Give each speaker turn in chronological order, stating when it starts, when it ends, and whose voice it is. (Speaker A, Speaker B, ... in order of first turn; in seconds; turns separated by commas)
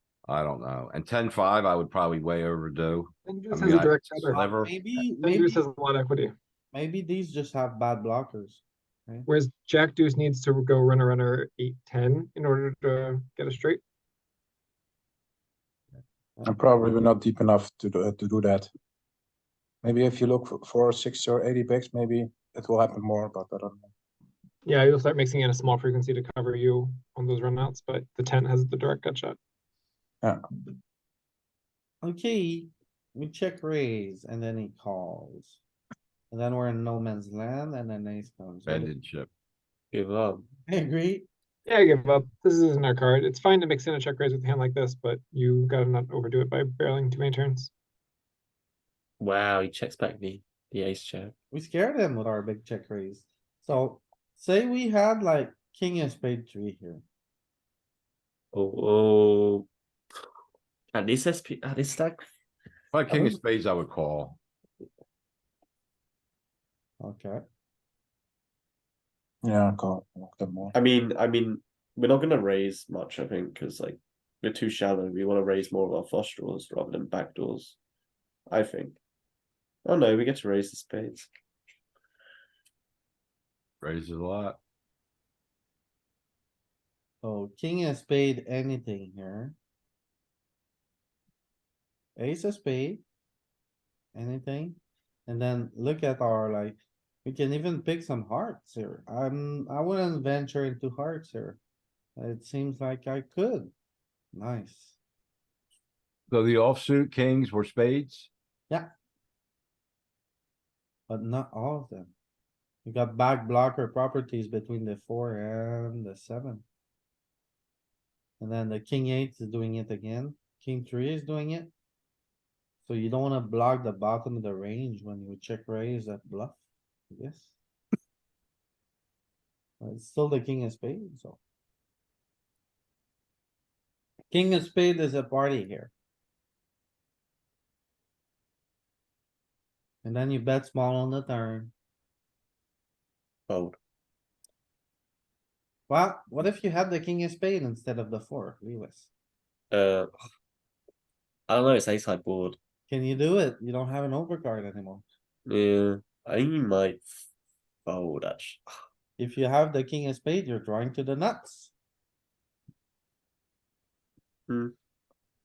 Speaker A: 0.3-4.7, Speaker B: 3.3-4.4, Speaker C: 4.3-5.6, Speaker B: 5.0-6.3, Speaker C: 6.7-9.3, Speaker B: 9.3-13.8, Speaker D: 16.4-18.7, Speaker D: 19.8-23.9, Speaker B: 24.6-29.4, Speaker C: 32.0-35.6, Speaker C: 36.3-38.9, Speaker A: 38.7-39.3, Speaker E: 39.9-40.5, Speaker C: 40.7-41.3, Speaker B: 41.7-47.7, Speaker E: 49.2-51.3, Speaker C: 51.5-57.0, Speaker E: 58.5-59.7, Speaker E: 60.9-62.3, Speaker A: 62.9-64.4, Speaker C: 63.1-63.4, Speaker C: 67.0-67.4, Speaker D: 69.4-70.7, Speaker E: 70.7-77.8, Speaker E: 78.5-79.0, Speaker E: 79.8-81.3, Speaker A: 83.8-84.6, Speaker C: 87.2-89.5, Speaker C: 92.2-93.0, Speaker C: 94.1-101.6, Speaker C: 102.2-103.7, Speaker C: 104.3-105.0, Speaker A: 106.3-108.3, Speaker C: 111.1-112.1, Speaker C: 112.8-116.7, Speaker C: 118.4-121.7, Speaker C: 122.8-127.5, Speaker C: 129.8-131.4, Speaker C: 134.3-135.9, Speaker C: 140.0-141.7, Speaker E: 143.5-143.8, Speaker C: 145.9-149.1, Speaker E: 149.7-150.1, Speaker E: 151.5-152.6, Speaker C: 152.9-155.1, Speaker E: 155.5-157.2, Speaker E: 157.9-158.6, Speaker C: 159.2-161.7, Speaker E: 164.5-164.7